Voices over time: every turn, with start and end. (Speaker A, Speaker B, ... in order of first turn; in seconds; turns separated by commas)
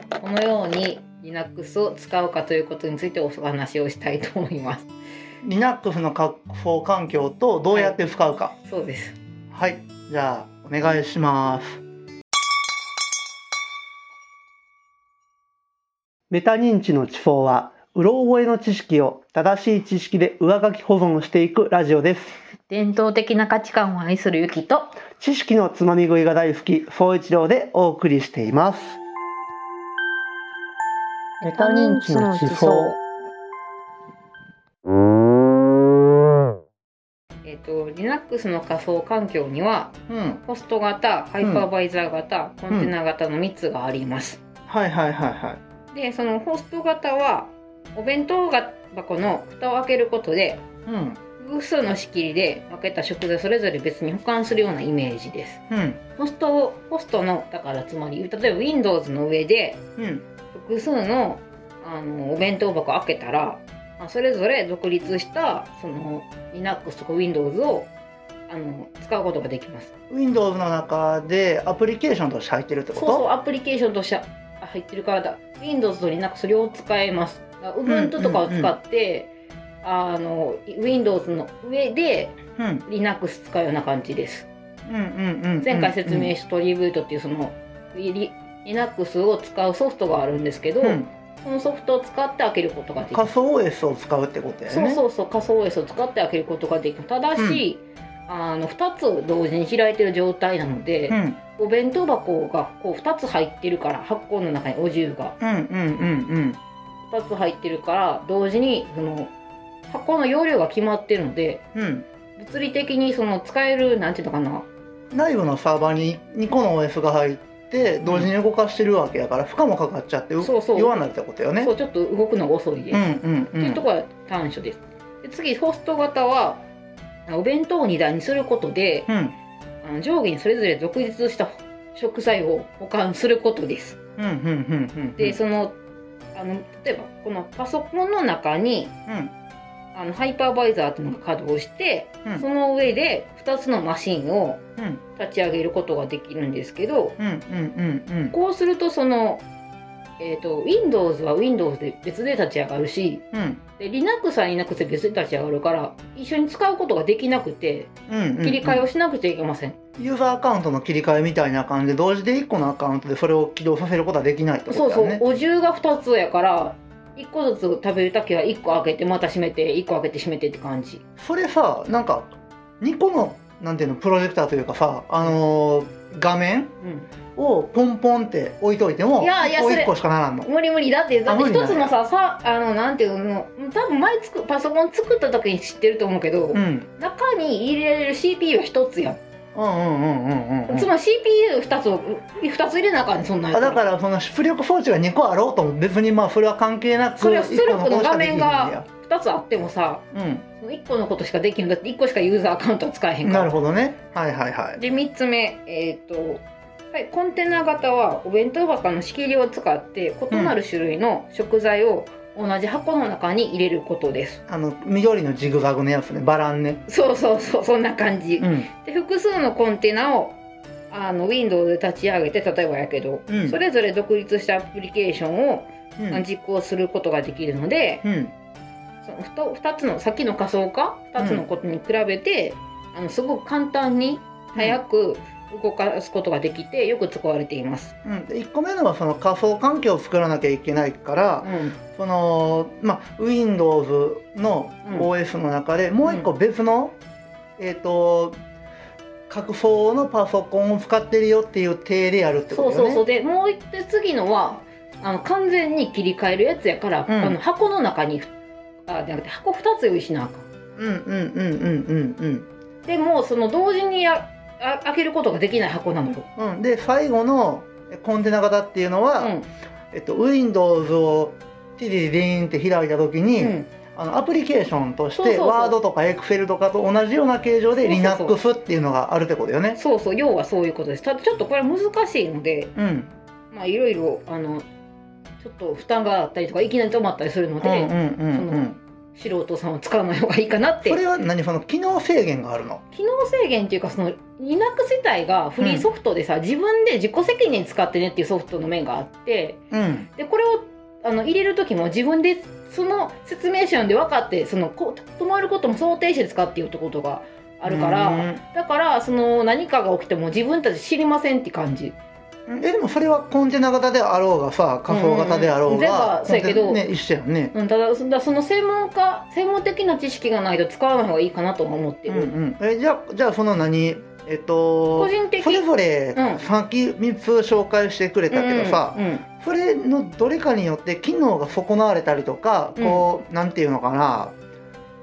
Speaker A: 0.2-4.9, Speaker B: 5.4-8.5, Speaker A: 7.7-8.0, Speaker A: 8.6-9.2, Speaker B: 9.5-11.8, Speaker B: 16.3-22.4, Speaker A: 22.6-25.0, Speaker B: 25.1-29.0, Speaker A: 31.4-33.0, Speaker B: 31.4-33.0, Speaker A: 37.4-39.9, Speaker B: 40.1-40.4, Speaker A: 40.4-44.4, Speaker B: 44.7-45.6, Speaker A: 45.9-50.6, Speaker B: 50.9-51.2, Speaker A: 51.4-55.6, Speaker B: 55.7-56.0, Speaker A: 56.2-59.8, Speaker B: 60.0-60.2, Speaker A: 60.5-67.9, Speaker A: 68.5-69.9, Speaker B: 70.1-73.2, Speaker A: 72.9-79.3, Speaker B: 77.8-78.7, Speaker A: 79.8-84.5, Speaker B: 82.6-82.8, Speaker B: 84.8-86.3, Speaker A: 85.6-93.3, Speaker B: 90.8-91.1, Speaker B: 93.1-95.0, Speaker A: 94.7-105.4, Speaker B: 101.1-101.4, Speaker B: 105.4-106.6, Speaker A: 107.0-109.3, Speaker A: 109.9-111.6, Speaker B: 111.7-112.0, Speaker A: 112.3-114.7, Speaker B: 115.1-121.7, Speaker A: 118.0-118.3, Speaker A: 120.4-121.0, Speaker A: 121.6-126.6, Speaker B: 122.9-123.8, Speaker A: 127.2-129.1, Speaker B: 129.1-129.4, Speaker A: 129.8-134.0, Speaker B: 134.2-135.4, Speaker A: 135.2-135.8, Speaker A: 136.3-138.9, Speaker B: 139.1-139.3, Speaker A: 139.9-144.6, Speaker B: 144.8-145.0, Speaker A: 145.2-147.2, Speaker B: 147.2-148.3, Speaker A: 148.3-149.4, Speaker A: 150.2-153.2, Speaker B: 153.3-153.6, Speaker A: 153.8-159.8, Speaker B: 158.1-158.8, Speaker B: 160.0-165.2, Speaker A: 164.7-171.0, Speaker B: 171.2-176.7, Speaker A: 176.8-177.1, Speaker B: 177.3-180.5, Speaker A: 179.2-179.9, Speaker A: 180.4-189.2, Speaker B: 181.3-181.9, Speaker B: 186.5-186.9, Speaker B: 189.5-190.9, Speaker A: 190.7-193.8, Speaker B: 193.5-198.8, Speaker A: 197.2-200.0, Speaker B: 200.1-200.4, Speaker A: 200.6-203.5, Speaker B: 203.2-204.8, Speaker A: 204.8-214.4, Speaker B: 214.5-216.8, Speaker A: 216.9-220.4, Speaker B: 218.4-218.7, Speaker A: 220.9-228.0, Speaker B: 223.3-223.6, Speaker B: 226.0-226.2, Speaker B: 228.0-228.3, Speaker A: 229.0-237.9, Speaker B: 231.2-231.4, Speaker B: 238.0-246.9, Speaker A: 241.4-241.8, Speaker B: 247.6-248.4, Speaker B: 249.3-253.0, Speaker A: 252.5-258.3, Speaker B: 257.1-257.4, Speaker A: 258.9-260.5, Speaker B: 260.8-262.5, Speaker A: 262.8-266.3, Speaker B: 266.4-269.3, Speaker A: 269.2-269.5, Speaker B: 269.9-279.8, Speaker A: 273.4-273.7, Speaker A: 275.1-275.8, Speaker A: 277.8-278.4, Speaker A: 279.8-282.7, Speaker B: 282.8-283.1, Speaker A: 283.5-284.6, Speaker A: 285.4-291.0, Speaker B: 287.6-288.8, Speaker B: 290.8-292.8, Speaker A: 292.9-299.6, Speaker B: 295.6-295.9, Speaker B: 299.7-300.1, Speaker A: 300.1-311.9, Speaker B: 307.6-308.4, Speaker B: 312.5-317.5, Speaker A: 314.9-316.8, Speaker A: 317.5-322.3, Speaker B: 322.1-334.3, Speaker A: 325.0-326.4, Speaker A: 328.3-329.2, Speaker A: 332.8-333.0